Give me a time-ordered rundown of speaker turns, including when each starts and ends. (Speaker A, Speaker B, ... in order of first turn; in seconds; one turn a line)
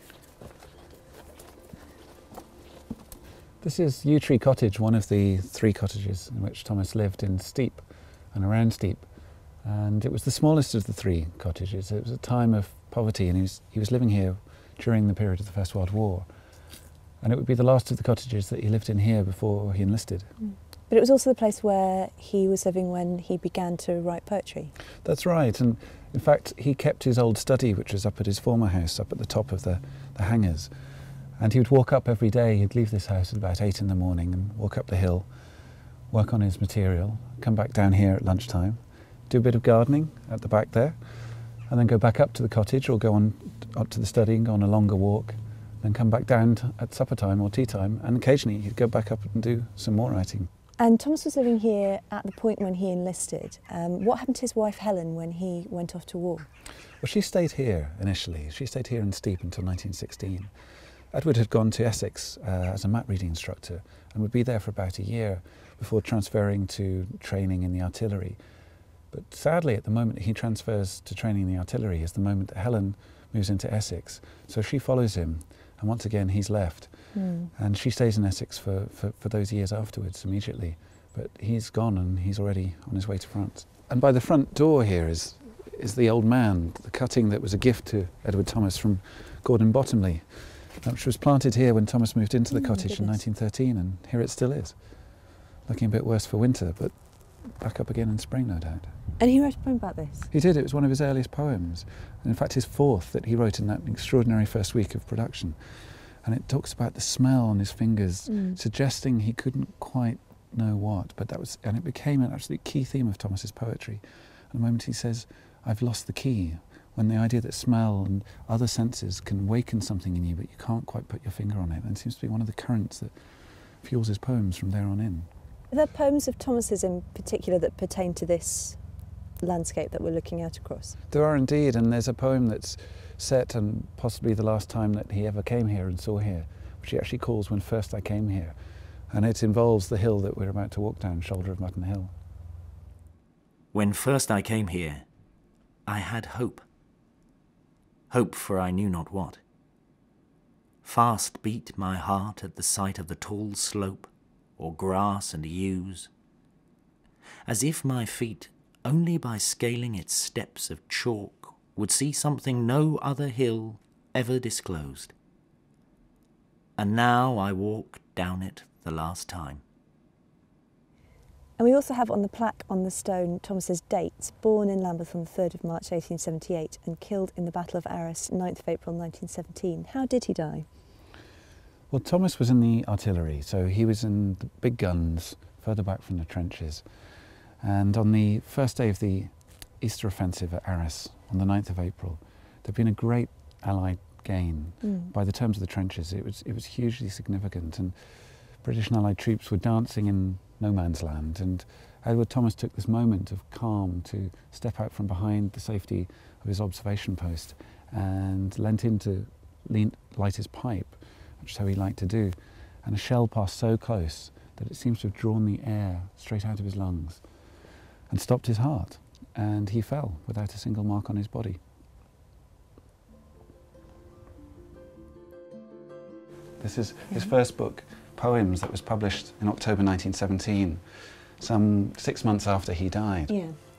Speaker A: 3.6-9.1
Speaker A: 9.6-16.3
Speaker A: 17.2-20.3
Speaker B: 20.4-24.7
Speaker A: 25.0-30.7
Speaker A: 31.4-35.3
Speaker A: 36.1-41.0
Speaker A: 41.7-50.5
Speaker B: 50.8-56.5
Speaker A: 57.0-60.5
Speaker A: 61.1-68.4
Speaker A: 69.1-76.9
Speaker B: 77.1-77.5
Speaker A: 77.5-94.8
Speaker B: 92.5-93.2
Speaker A: 95.7-96.9
Speaker A: 97.6-98.9
Speaker B: 99.2-100.3
Speaker A: 100.3-105.6
Speaker A: 106.2-123.1
Speaker B: 108.3-108.5
Speaker A: 123.8-125.3
Speaker B: 125.7-128.8
Speaker B: 129.4-130.9
Speaker A: 131.1-138.6
Speaker A: 139.1-142.1
Speaker C: 143.7-145.0
Speaker C: 145.8-146.6
Speaker C: 148.1-149.4
Speaker C: 150.8-156.1
Speaker C: 157.4-165.1
Speaker C: 166.8-169.6
Speaker B: 171.6-180.7
Speaker A: 181.9-186.8
Speaker A: 187.6-197.9
Speaker B: 194.8-195.1
Speaker A: 198.6-217.2
Speaker A: 218.1-221.6
Speaker A: 226.6-230.8
Speaker A: 231.4-233.3
Speaker B: 233.3-233.6